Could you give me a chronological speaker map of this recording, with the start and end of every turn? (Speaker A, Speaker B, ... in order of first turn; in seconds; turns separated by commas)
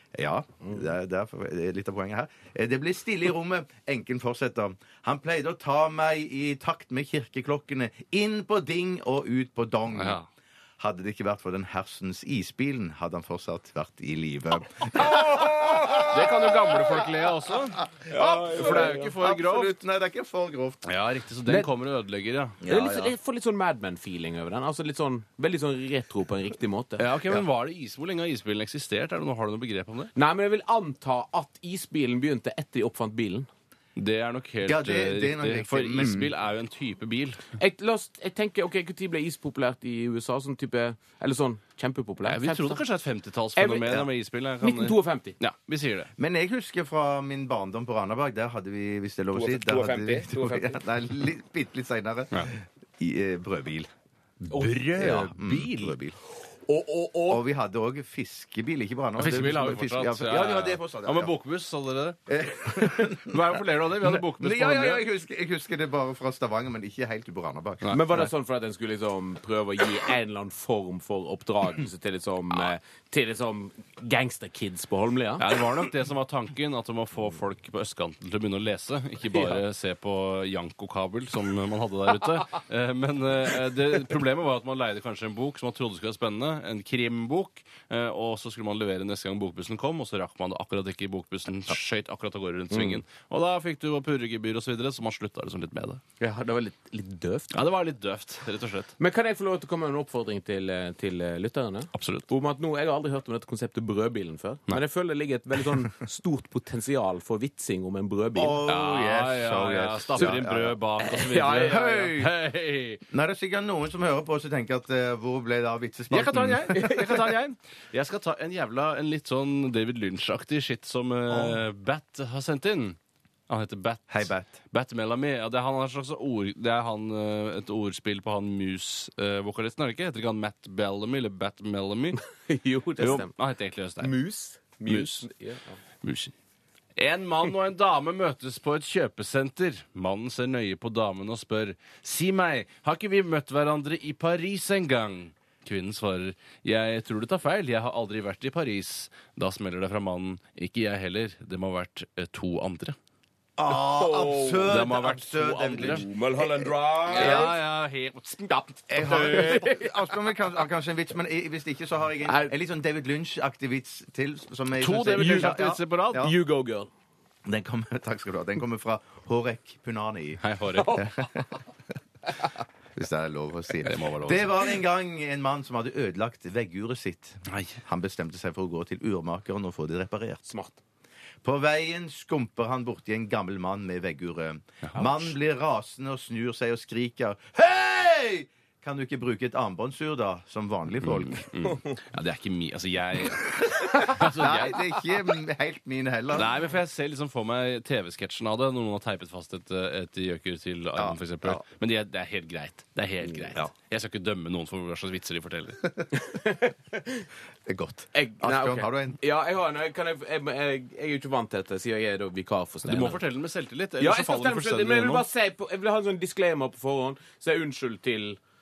Speaker A: 0.1-10.2, Speaker B: 9.9-10.2, Speaker A: 10.8-16.5, Speaker B: 15.9-19.7, Speaker A: 18.1-20.8, Speaker C: 18.1-19.1, Speaker B: 20.8-22.6, Speaker A: 22.6-23.1, Speaker C: 22.6-27.1, Speaker B: 27.0-30.1, Speaker C: 30.1-33.5, Speaker B: 34.0-37.4, Speaker A: 34.6-36.3, Speaker C: 37.6-42.8, Speaker B: 42.2-46.1, Speaker C: 43.5-44.1, Speaker C: 44.6-45.4, Speaker A: 46.2-53.9, Speaker C: 49.3-50.8, Speaker A: 54.5-56.1, Speaker C: 54.5-55.9, Speaker B: 54.6-55.6, Speaker C: 56.7-57.4, Speaker A: 57.3-61.3, Speaker B: 59.2-65.0, Speaker A: 62.3-68.2, Speaker B: 67.8-68.3, Speaker C: 67.9-75.5, Speaker B: 75.4-96.0, Speaker C: 79.3-79.6, Speaker C: 92.7-93.0, Speaker C: 96.2-97.6, Speaker B: 97.5-98.9, Speaker C: 99.0-108.6, Speaker B: 101.9-102.3, Speaker A: 108.3-110.8, Speaker B: 108.7-113.0, Speaker C: 111.0-112.1, Speaker A: 111.5-112.3, Speaker A: 113.1-116.9, Speaker B: 116.1-123.0, Speaker C: 116.7-117.3, Speaker A: 121.3-121.6, Speaker B: 123.5-132.2, Speaker A: 124.1-124.5, Speaker C: 132.2-133.3, Speaker B: 133.0-134.2, Speaker C: 134.0-135.8, Speaker B: 134.8-135.3, Speaker B: 136.0-136.3, Speaker B: 137.0-152.9, Speaker A: 153.6-157.5, Speaker C: 153.7-154.8, Speaker B: 154.7-156.1, Speaker C: 155.3-157.6, Speaker B: 157.1-159.6, Speaker C: 158.4-159.9, Speaker A: 158.9-166.3, Speaker C: 162.2-162.5, Speaker B: 164.7-166.3, Speaker C: 165.1-166.9, Speaker A: 167.4-171.4, Speaker B: 170.4-171.1, Speaker A: 172.9-180.4, Speaker B: 173.8-174.5, Speaker B: 177.5-177.8, Speaker C: 180.4-180.8, Speaker A: 181.4-191.4, Speaker B: 184.9-185.3, Speaker B: 191.0-195.0, Speaker A: 193.7-196.5, Speaker B: 196.3-205.9, Speaker A: 200.9-201.6, Speaker C: 206.2-207.2, Speaker A: 207.7-209.2, Speaker C: 208.1-213.2, Speaker B: 212.8-215.2, Speaker C: 214.0-218.4